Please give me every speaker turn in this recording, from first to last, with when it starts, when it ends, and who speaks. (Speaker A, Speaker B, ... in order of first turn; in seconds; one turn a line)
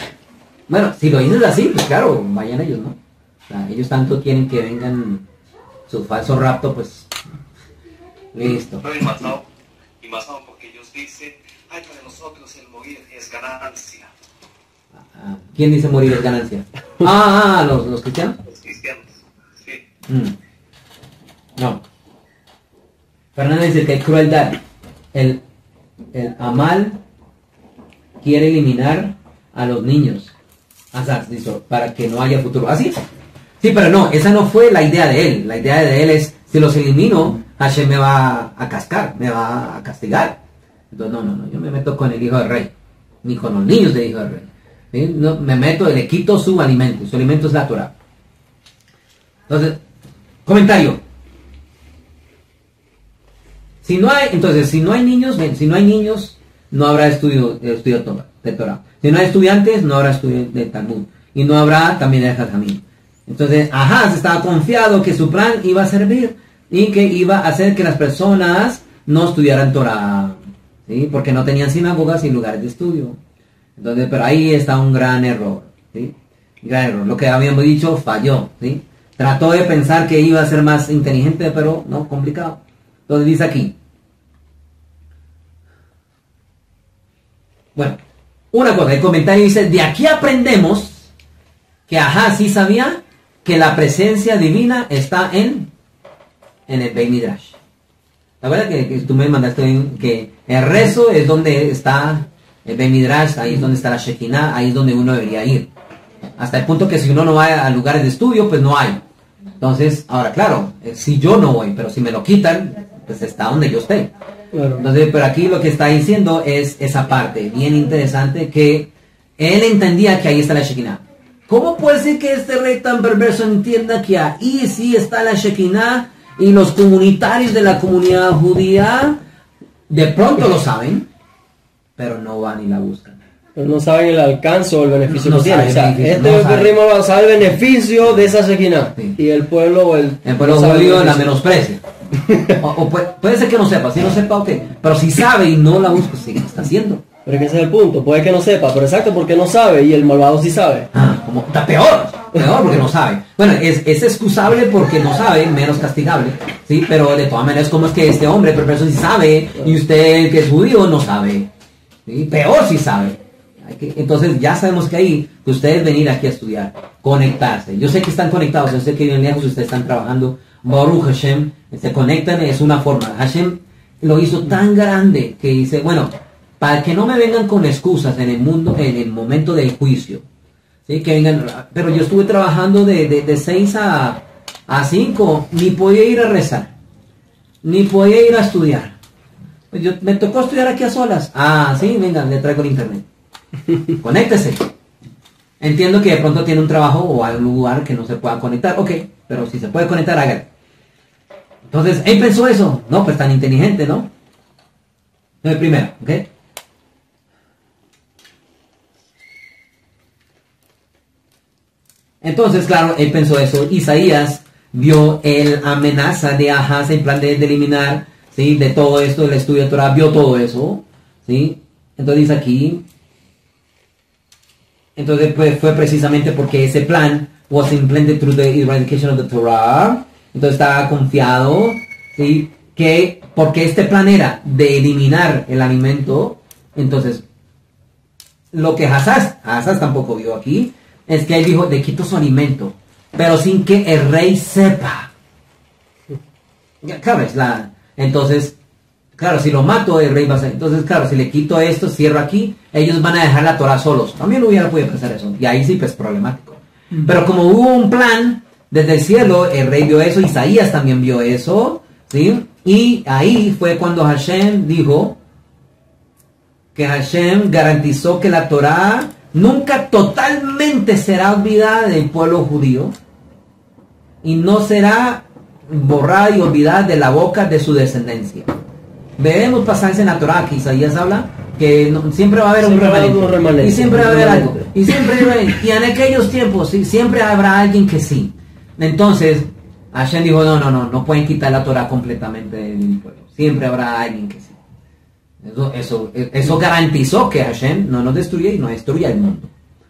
Speaker A: 0.7-3.0
Speaker A: 3.5-5.2
Speaker A: 5.9-7.1
Speaker A: 8.3-8.8
Speaker B: 8.8-9.4
Speaker B: 10.0-14.1
Speaker A: 15.1-18.4
Speaker B: 18.5-19.1
Speaker A: 20.1-20.4
Speaker A: 21.6-21.8
Speaker A: 23.3-24.6
Speaker A: 25.1-25.4
Speaker A: 26.1-27.0
Speaker A: 28.2-30.3
Speaker A: 30.9-33.0
Speaker A: 33.6-40.4
Speaker A: 40.9-42.7
Speaker A: 43.2-47.9
Speaker A: 49.5-49.8
Speaker A: 50.5-51.0
Speaker A: 53.8-73.2
Speaker A: 73.8-83.7
Speaker A: 88.5-91.1
Speaker A: 91.9-95.7
Speaker A: 96.7-97.6
Speaker A: 98.4-105.7
Speaker A: 106.4-109.0
Speaker A: 109.6-114.1
Speaker C: 114.5-114.8
Speaker A: 114.8-129.2
Speaker A: 129.9-131.1
Speaker A: 132.0-133.2
Speaker C: 133.6-141.3
Speaker A: 135.1-136.8
Speaker A: 140.2-141.8
Speaker C: 142.2-142.6
Speaker A: 142.6-147.0
Speaker C: 147.2-150.9
Speaker A: 150.9-161.5
Speaker A: 162.1-180.2
Speaker A: 180.9-186.7
Speaker A: 187.6-188.9
Speaker A: 189.7-193.0
Speaker A: 193.9-194.7
Speaker A: 195.6-200.5
Speaker A: 201.7-204.1
Speaker A: 205.4-206.3
Speaker A: 212.2-222.8
Speaker A: 224.9-237.2
Speaker A: 238.5-245.1
Speaker A: 246.8-248.6
Speaker A: 249.2-265.2
Speaker A: 266.7-272.9
Speaker A: 274.2-278.6
Speaker A: 279.2-294.6
Speaker C: 282.6-284.7
Speaker A: 295.4-299.5